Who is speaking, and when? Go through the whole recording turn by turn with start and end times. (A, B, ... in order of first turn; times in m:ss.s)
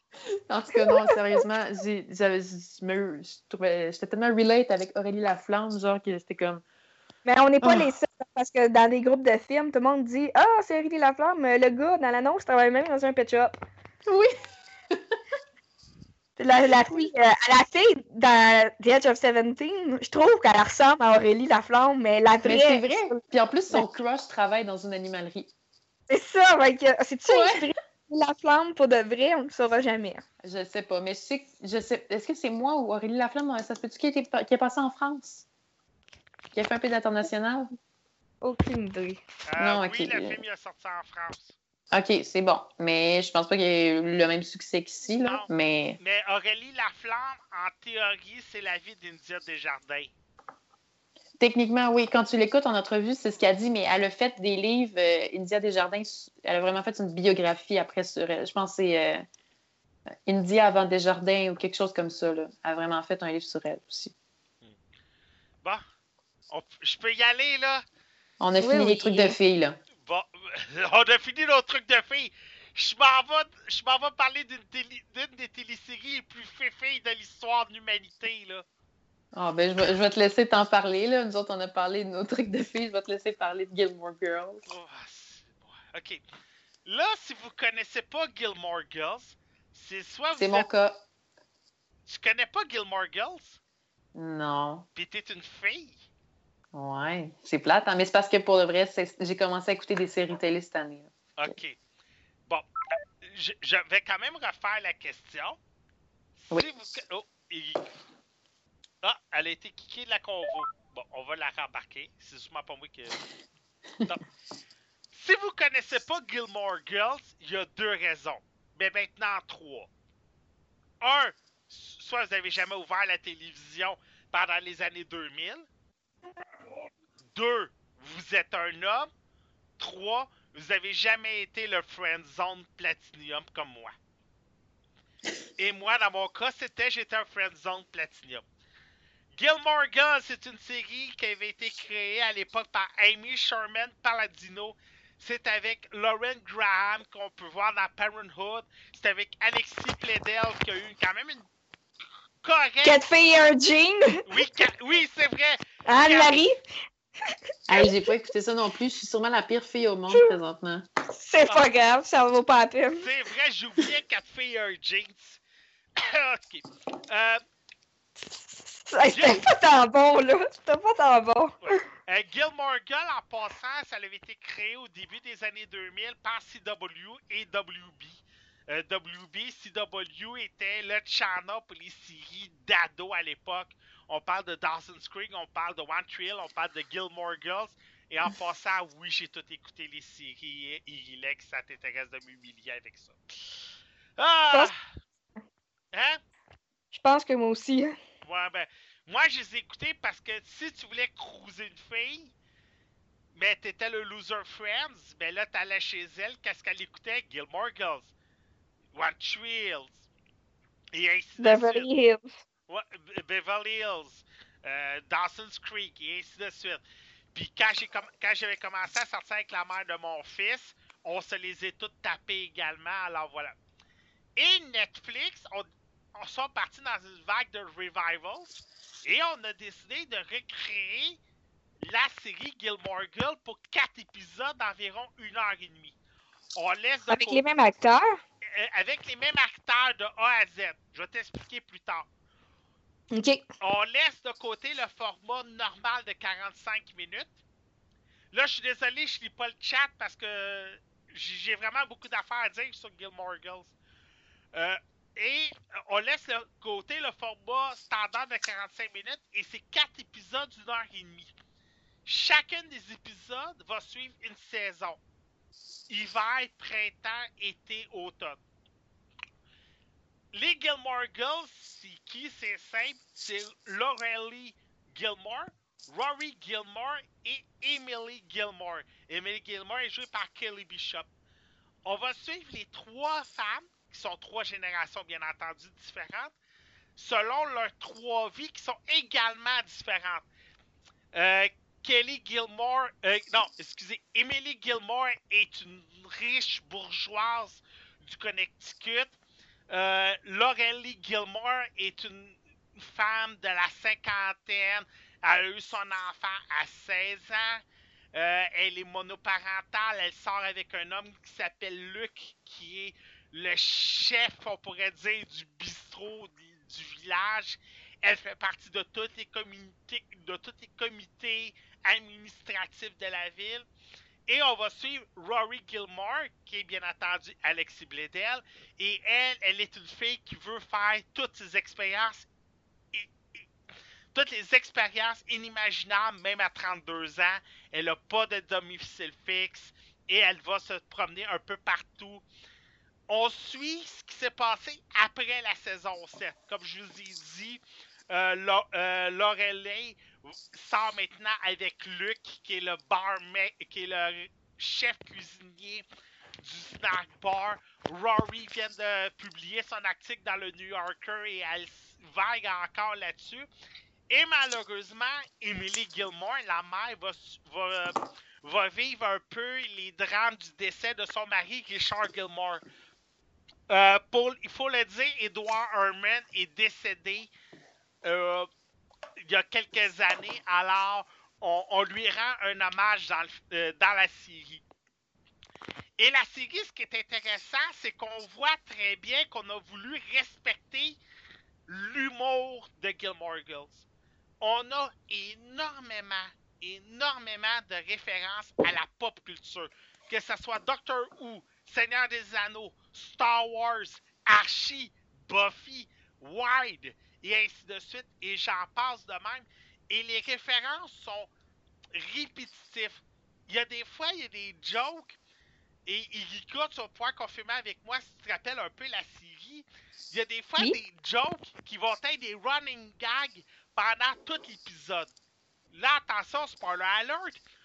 0:00.5-0:06.6 A
0:00.8-0:01.2 B
0:07.2-0:13.5 B
0:07.6-0:07.9 A
0:14.1-0:15.0 A
0:16.4-0:23.2 B
0:16.7-0:17.1 A
0:22.4-0:25.5 A
0:26.1-0:30.2 B
0:27.3-0:27.7 A
0:30.4-0:35.4 A
0:36.5-0:37.7 A
0:38.4-0:39.2 B
0:39.5-0:41.6 C
0:39.6-0:40.4 A
0:41.9-0:46.0 A
0:45.2-0:50.1 C
0:51.4-0:59.2 A
1:00.3-1:04.1 A
1:06.5-1:07.8 C
1:08.4-1:09.8 A
1:08.6-1:09.4 B
1:10.0-1:18.6 C
1:19.3-1:24.7 A
1:24.6-1:26.2 C
1:26.8-1:30.7 C
1:30.3-1:31.0 A
1:32.0-1:33.6 C
1:34.2-1:34.8 A
1:35.0-1:36.0 C
1:36.7-1:41.1 A
1:41.4-1:41.8 C
1:43.2-1:45.6 C
1:46.4-1:47.8 C
1:49.0-1:53.2 C
1:55.1-1:59.9 C
2:01.0-2:05.6 C
2:07.3-2:09.1 C
2:09.8-2:13.9 C
2:15.6-2:18.4 C
2:19.4-2:31.5 C
2:32.4-2:33.0 C
2:32.8-2:34.2 B
2:34.3-2:36.4 C
2:35.9-2:36.6 B
2:37.2-2:38.1 B
2:37.7-2:40.9 A
2:41.2-2:43.1 B
2:43.0-2:45.4 C
2:46.0-2:47.4 C
2:48.2-2:51.7 B
2:49.1-2:49.4 C
2:51.6-3:13.2 C
3:14.2-3:14.8 C
3:15.9-3:16.2 C
3:16.9-3:18.0 B
3:18.2-3:22.3 C
3:23.3-3:28.1 C
3:28.9-3:30.0 C
3:30.9-3:31.9 C
3:31.4-3:32.2 B
3:32.7-3:36.8 C
3:37.3-3:43.5 C
3:44.4-3:51.2 C
3:51.8-3:55.9 C
3:56.6-3:57.4 C
3:57.1-3:58.2 B
3:58.5-4:02.1 C
4:03.1-4:03.4 B
4:03.6-4:07.3 C
4:08.3-4:13.7 C
4:14.5-4:21.3 C
4:22.0-4:25.0 C
4:25.9-4:28.4 C
4:30.3-4:41.1 C
4:41.8-4:46.3 C
4:47.0-4:50.2 C
4:51.1-4:59.2 C
4:59.7-5:07.6 C
5:08.1-5:23.6 C
5:24.3-5:32.3 C
5:32.9-5:33.4 C
5:34.1-5:42.2 C
5:43.1-5:55.8 C
5:56.4-6:03.5 C
6:04.1-6:12.6 C
6:13.7-6:17.3 C
6:18.0-6:18.5 C
6:19.3-6:24.6 C
6:26.0-6:31.0 C
6:31.7-6:33.8 C
6:34.4-6:51.3 C
6:51.9-6:55.2 C
6:55.8-7:05.1 C
7:05.7-7:07.4 C